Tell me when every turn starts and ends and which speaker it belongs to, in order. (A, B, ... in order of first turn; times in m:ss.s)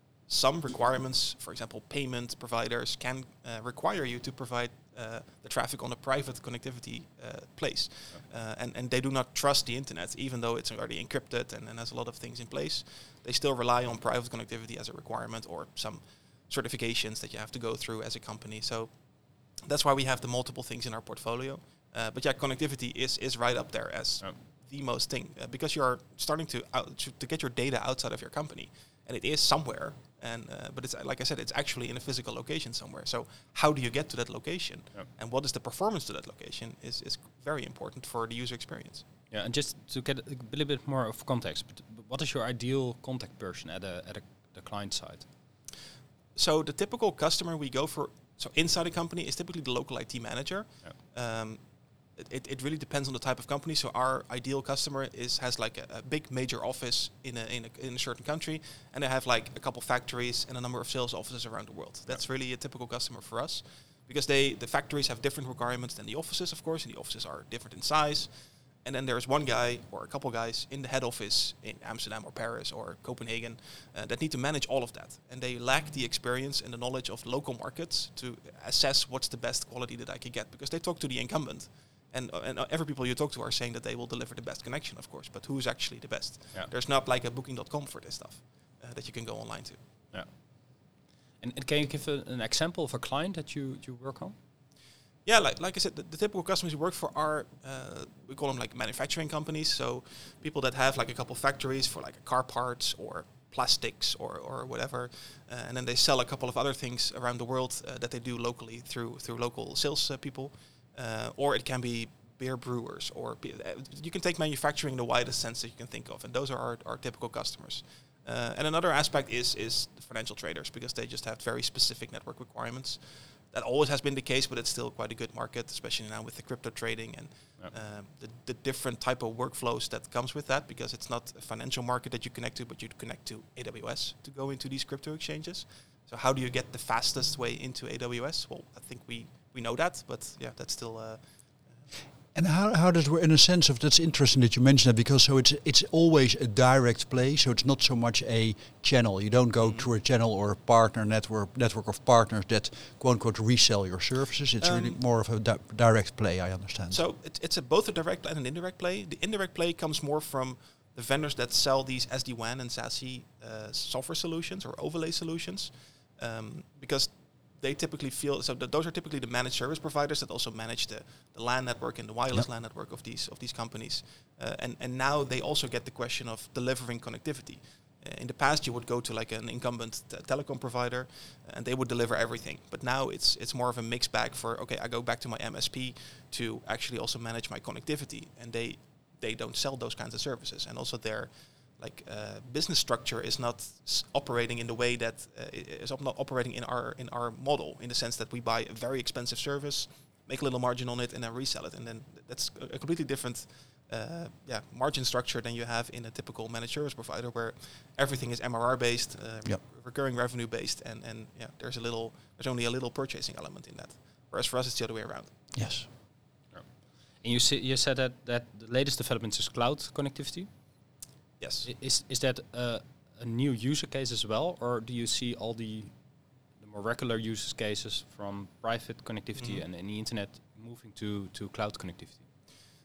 0:00.3-0:18.9 A
0:19.6-0:39.0 A
0:39.3-0:45.3 B
0:46.3-0:51.6 A
0:52.2-1:08.3 A
1:08.8-1:29.8 A
1:31.4-1:34.4 B
1:35.2-2:03.0 A
2:03.5-2:21.2 A
2:22.3-2:37.0 C
2:29.6-2:29.9 A
2:34.6-2:35.0 A
2:36.9-3:35.3 A
3:35.5-3:35.9 C
3:36.5-3:40.5 B
3:41.4-3:41.7 A
3:41.6-3:45.9 B
3:46.6-3:52.2 B
3:49.4-3:49.6 A